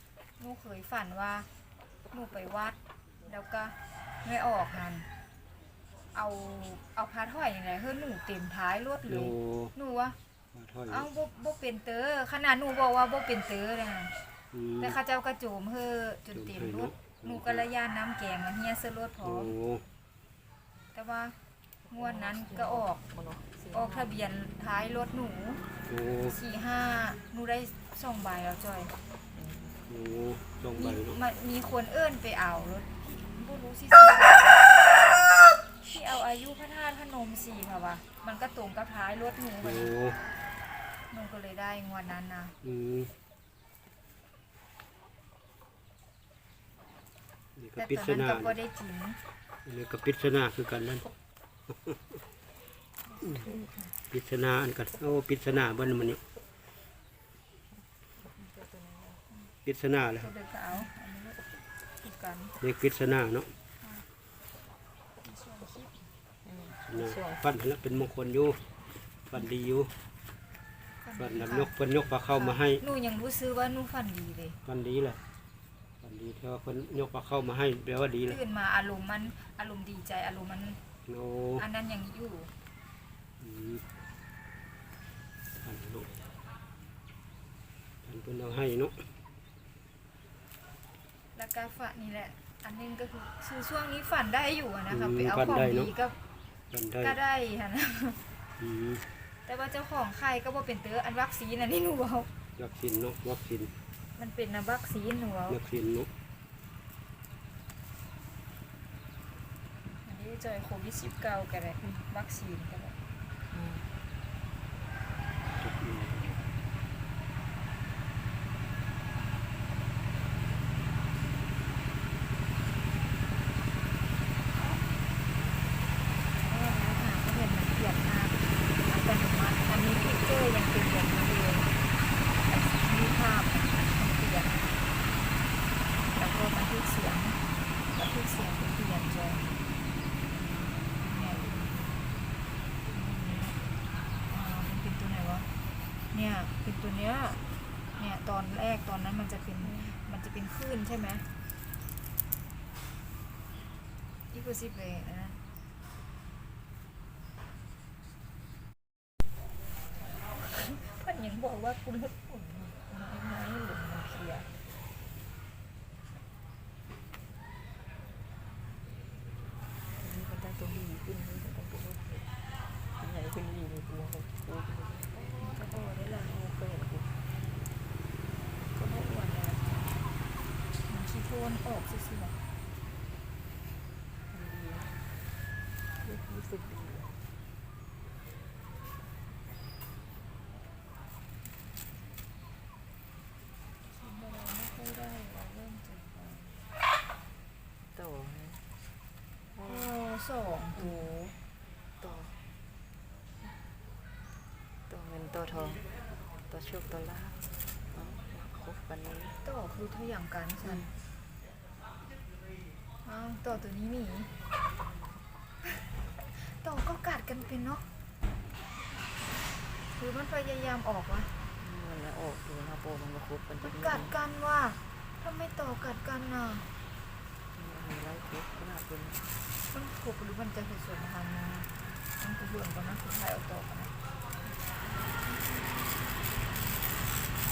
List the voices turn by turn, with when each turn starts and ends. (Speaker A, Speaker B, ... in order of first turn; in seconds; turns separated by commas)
Speaker A: 0.4-1.5, Speaker A: 2.1-5.1, Speaker A: 6.1-10.2, Speaker B: 9.1-9.7, Speaker B: 10.5-11.1, Speaker A: 10.9-14.1, Speaker B: 14.5-15.0, Speaker A: 14.8-19.5, Speaker B: 16.3-17.7, Speaker B: 19.2-19.8, Speaker A: 20.9-21.4, Speaker C: 21.8-24.1, Speaker A: 21.9-23.0, Speaker A: 23.7-25.6, Speaker B: 25.9-26.3, Speaker A: 26.2-28.9, Speaker C: 29.3-29.8, Speaker B: 29.9-31.2, Speaker A: 30.8-34.7, Speaker A: 35.8-39.9, Speaker B: 39.6-40.2, Speaker A: 41.1-42.5, Speaker B: 42.6-43.1, Speaker B: 47.6-48.6, Speaker A: 47.8-49.2, Speaker B: 49.6-51.1, Speaker B: 51.7-52.0, Speaker A: 53.2-53.5, Speaker C: 53.3-53.8, Speaker B: 54.1-56.2, Speaker C: 58.2-59.2, Speaker B: 59.6-60.3, Speaker A: 60.2-62.6, Speaker B: 62.6-63.5, Speaker A: 63.8-64.1, Speaker A: 65.2-66.0, Speaker C: 66.5-67.5, Speaker B: 66.7-68.6, Speaker B: 69.3-69.9, Speaker A: 71.0-71.7, Speaker B: 71.2-72.8, Speaker A: 72.3-74.6, Speaker B: 74.7-75.2, Speaker B: 76.0-78.4, Speaker A: 78.3-80.8, Speaker B: 81.1-81.6, Speaker A: 81.6-82.5, Speaker B: 83.4-83.8, Speaker B: 85.6-86.1, Speaker B: 88.0-89.0, Speaker A: 91.3-96.2, Speaker B: 94.9-95.9, Speaker B: 96.7-97.2, Speaker A: 97.0-98.2, Speaker B: 98.6-99.0, Speaker A: 99.5-102.3, Speaker B: 102.6-103.7, Speaker A: 104.2-105.6, Speaker B: 105.5-106.1, Speaker A: 110.0-113.0, Speaker C: 113.5-113.9, Speaker B: 115.5-116.4, Speaker A: 126.5-131.7, Speaker A: 132.5-134.7, Speaker A: 136.1-137.4, Speaker A: 137.9-139.5, Speaker A: 141.0-141.5, Speaker A: 142.9-143.6, Speaker A: 144.3-145.5, Speaker A: 146.1-147.4, Speaker A: 148.0-151.3, Speaker C: 149.6-150.0, Speaker A: 154.3-155.4, Speaker A: 160.3-164.5, Speaker C: 170.0-172.2, Speaker C: 173.0-177.2, Speaker C: 178.7-180.0, Speaker A: 180.9-182.4, Speaker C: 184.3-184.9, Speaker C: 186.0-187.1, Speaker A: 193.9-196.6, Speaker C: 197.9-198.6, Speaker C: 199.6-199.9, Speaker A: 199.7-201.4, Speaker C: 202.0-202.4, Speaker C: 204.9-205.8, Speaker C: 206.5-209.3, Speaker A: 209.4-210.9, Speaker C: 210.6-210.9, Speaker A: 213.0-214.3, Speaker A: 216.3-217.9, Speaker A: 219.9-221.3, Speaker C: 221.6-224.1, Speaker A: 223.6-226.7, Speaker C: 227.6-229.3, Speaker A: 229.7-233.9